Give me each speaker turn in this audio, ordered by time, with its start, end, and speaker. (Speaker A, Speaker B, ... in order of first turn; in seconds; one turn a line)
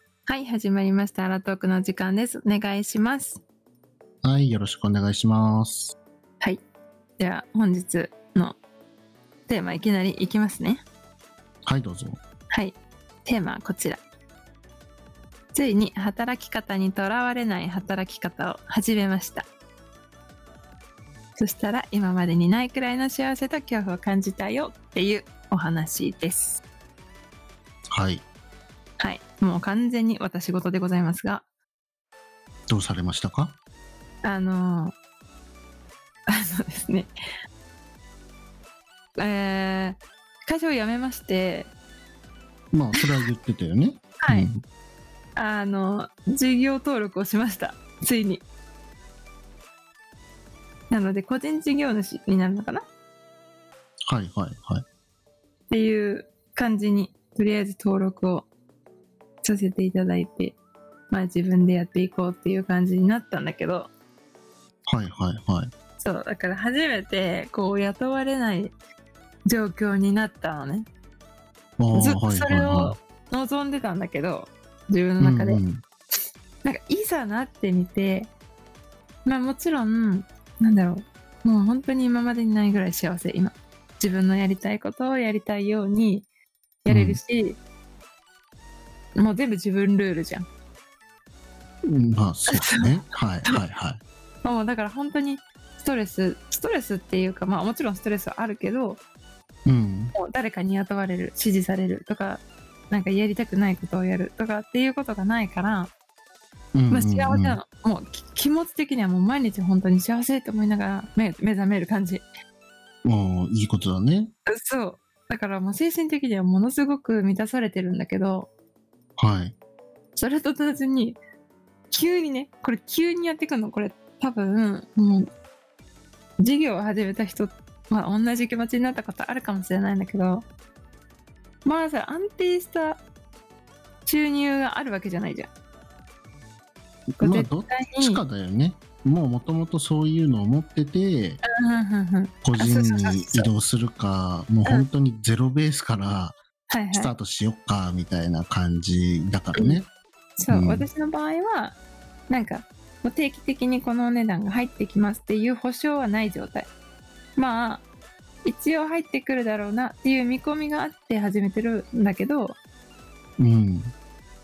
Speaker A: 0.3-3.4
Speaker B: 4.2-6.0
Speaker A: 7.2-8.6
Speaker A: 9.5-10.8
Speaker B: 11.7-12.2
Speaker A: 12.5-14.0
Speaker A: 15.5-19.5
Speaker A: 21.4-26.6
Speaker B: 27.9-28.2
Speaker A: 29.0-31.4
Speaker B: 32.7-33.6
Speaker A: 34.2-35.0
Speaker A: 36.3-37.1
Speaker A: 39.2-41.7
Speaker B: 42.7-44.6
Speaker A: 44.2-44.5
Speaker A: 45.4-48.5
Speaker A: 50.9-52.9
Speaker B: 54.1-54.8
Speaker A: 55.7-58.5
Speaker A: 59.4-60.6
Speaker A: 61.1-63.9
Speaker B: 64.9-65.7
Speaker A: 66.0-68.7
Speaker A: 69.5-70.9
Speaker B: 71.8-73.0
Speaker A: 71.9-75.6
Speaker B: 75.2-75.8
Speaker A: 76.6-78.3
Speaker A: 79.2-86.3
Speaker A: 86.8-87.6
Speaker B: 86.9-87.2
Speaker A: 89.2-90.5
Speaker B: 91.9-94.0
Speaker A: 92.5-93.6
Speaker A: 94.4-99.0
Speaker B: 99.7-100.1
Speaker A: 100.2-105.9
Speaker B: 106.8-107.6
Speaker A: 106.9-112.2
Speaker B: 113.0-114.3
Speaker A: 114.5-118.5
Speaker B: 119.2-119.5
Speaker A: 120.2-121.2
Speaker A: 121.9-125.3
Speaker A: 126.4-130.5
Speaker A: 131.7-133.0
Speaker A: 134.1-135.5
Speaker B: 137.2-141.4
Speaker A: 137.2-138.2
Speaker A: 141.4-143.5
Speaker B: 142.4-146.4
Speaker A: 146.7-147.1
Speaker B: 146.9-149.9
Speaker A: 149.6-149.8
Speaker A: 150.4-151.8
Speaker B: 150.5-150.9
Speaker A: 152.3-156.7
Speaker A: 157.4-157.8
Speaker A: 158.4-162.6
Speaker B: 163.4-163.9